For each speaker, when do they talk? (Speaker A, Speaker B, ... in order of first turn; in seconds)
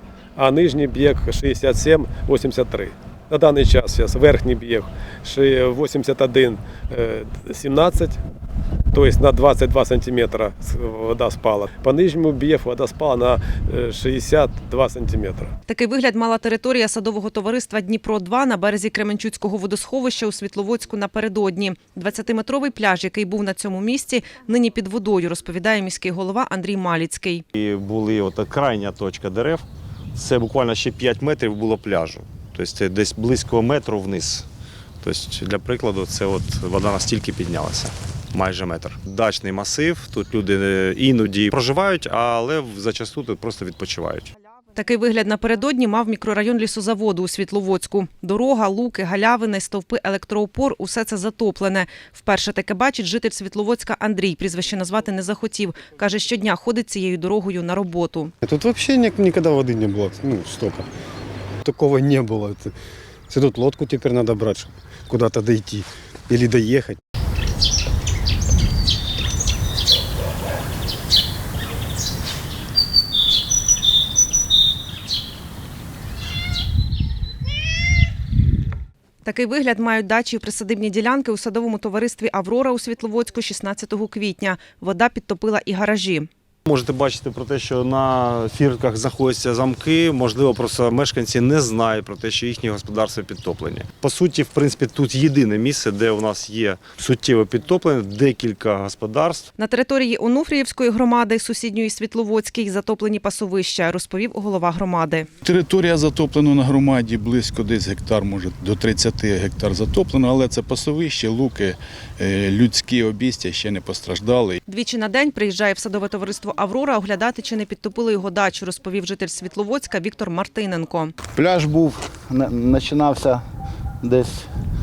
Speaker A: 0.3-8.2, 8.9-15.5
Speaker B: 15.7-27.4, 44.7-58.3, 79.2-86.3, 99.6-105.3, 114.7-121.1
Speaker C: 27.5-34.5, 35.0-44.3, 86.7-99.5
Speaker D: 58.4-60.9, 61.6-62.7, 63.3-67.0
Speaker E: 105.4-114.6
Speaker F: 121.3-123.4, 124.0-124.5